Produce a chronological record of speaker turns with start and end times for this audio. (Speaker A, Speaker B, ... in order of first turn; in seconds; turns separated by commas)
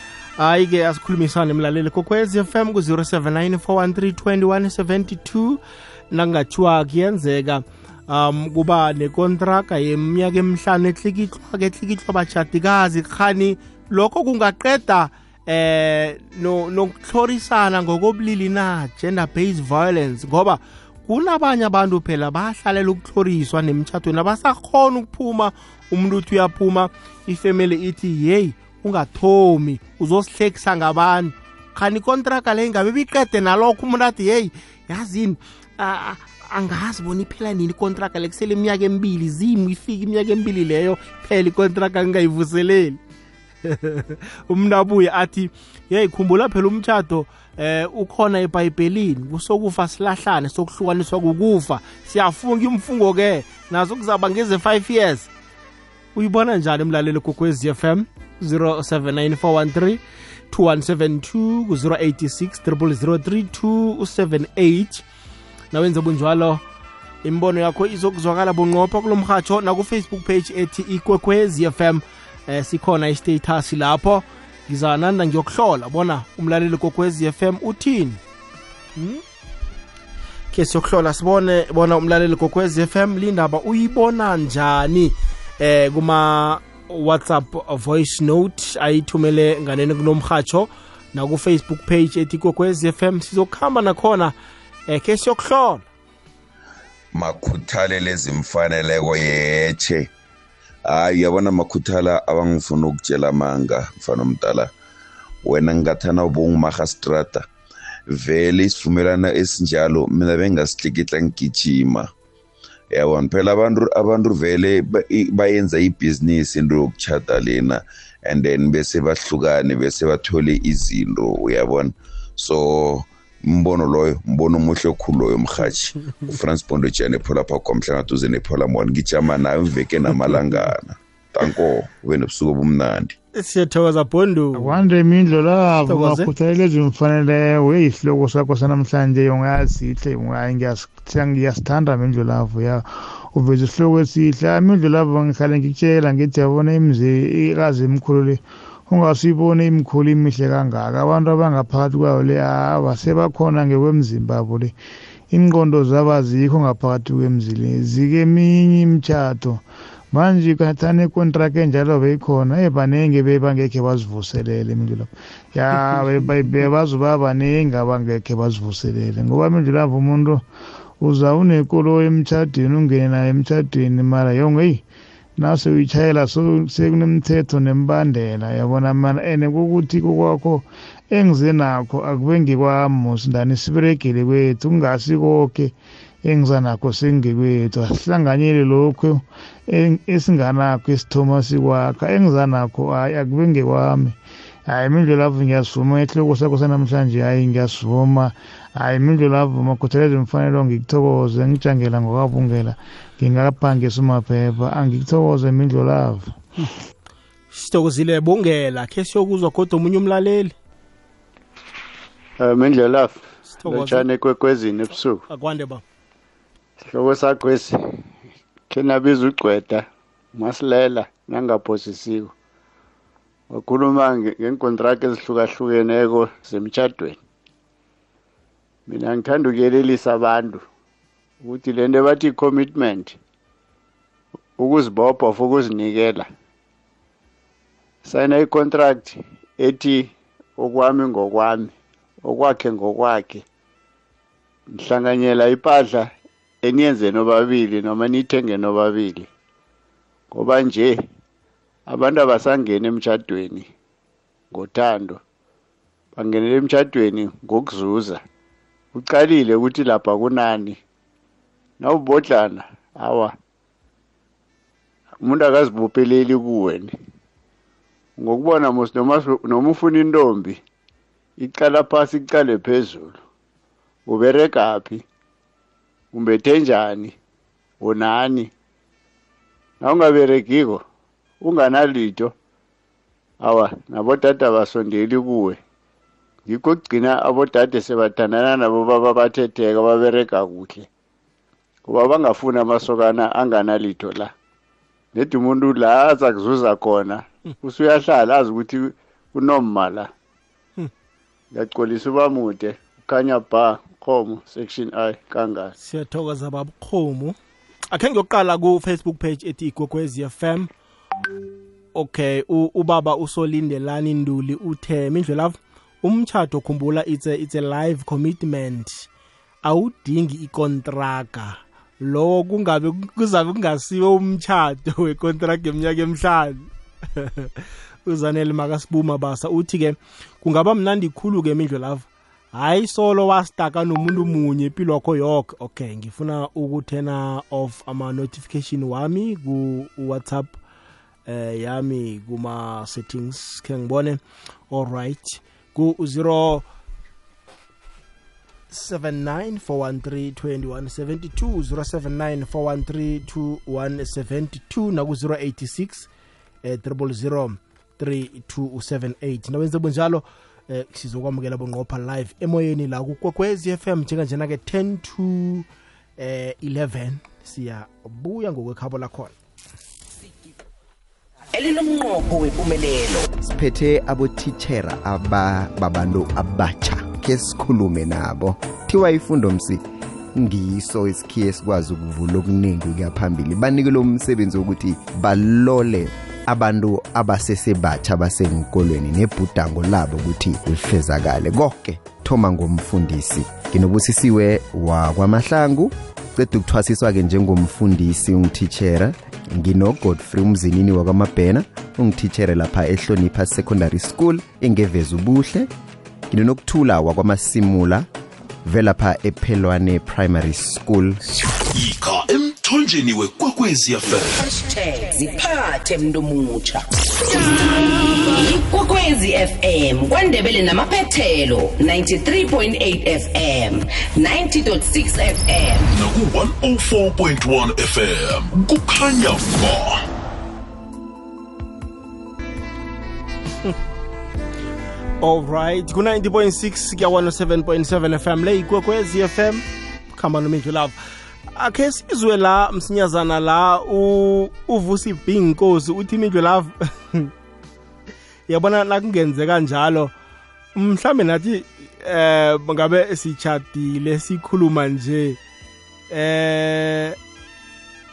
Speaker A: 0.4-5.6, Speaker A: 6.1-43.0, Speaker A: 43.6-55.3, Speaker A: 56.1-65.0, Speaker A: 65.7-66.6, Speaker A: 67.2-78.2, Speaker A: 79.0-79.2, Speaker A: 80.5-94.3, Speaker A: 94.9-95.8, Speaker B: 97.1-100.1, Speaker B: 100.9-104.7, Speaker B: 105.4-107.4, Speaker B: 108.1-112.1, Speaker B: 112.9-133.1, Speaker A: 130.3-130.6, Speaker A: 133.3-134.8, Speaker C: 134.6-154.7, Speaker A: 135.8-136.3, Speaker C: 155.3-170.4, Speaker C: 171.0-174.8, Speaker C: 175.4-185.7, Speaker C: 186.2-206.4, Speaker A: 207.5-210.5, Speaker D: 212.4-215.2, Speaker A: 213.5-214.1, Speaker A: 215.3-215.8, Speaker D: 216.8-217.8, Speaker D: 218.7-222.3, Speaker D: 223.5-227.2, Speaker D: 228.9-230.6, Speaker D: 231.4-233.2, Speaker D: 234.6-236.3, Speaker D: 238.0-243.4, Speaker D: 244.7-246.1, Speaker D: 246.6-249.3, Speaker D: 250.3-251.0, Speaker D: 251.9-253.7, Speaker D: 254.5-255.2, Speaker D: 256.1-258.2, Speaker D: 258.9-260.8, Speaker D: 261.8-263.3, Speaker D: 265.2-266.9, Speaker D: 268.2-270.6, Speaker D: 271.4-273.2, Speaker D: 274.1-275.0, Speaker D: 276.1-277.1, Speaker D: 277.8-278.5, Speaker D: 279.8-280.8, Speaker D: 281.4-282.3, Speaker D: 283.4-285.6, Speaker D: 286.5-290.9, Speaker D: 291.9-294.3, Speaker D: 295.1-300.1, Speaker D: 301.5-305.7, Speaker A: 305.8-307.4, Speaker A: 307.9-310.7, Speaker A: 311.9-319.1, Speaker A: 319.6-340.6, Speaker A: 341.3-346.6, Speaker A: 348.7-356.1, Speaker A: 356.6-365.7, Speaker A: 366.2-369.3, Speaker E: 371.5-373.3, Speaker F: 373.4-379.8, Speaker F: 380.3-405.7, Speaker F: 406.3-408.1, Speaker F: 408.6-411.2, Speaker G: 411.7-414.4, Speaker E: 414.4-425.9, Speaker G: 425.9-430.0, Speaker A: 435.2-447.3, Speaker A: 448.5-450.1, Speaker A: 450.7-455.4, Speaker A: 456.1-457.2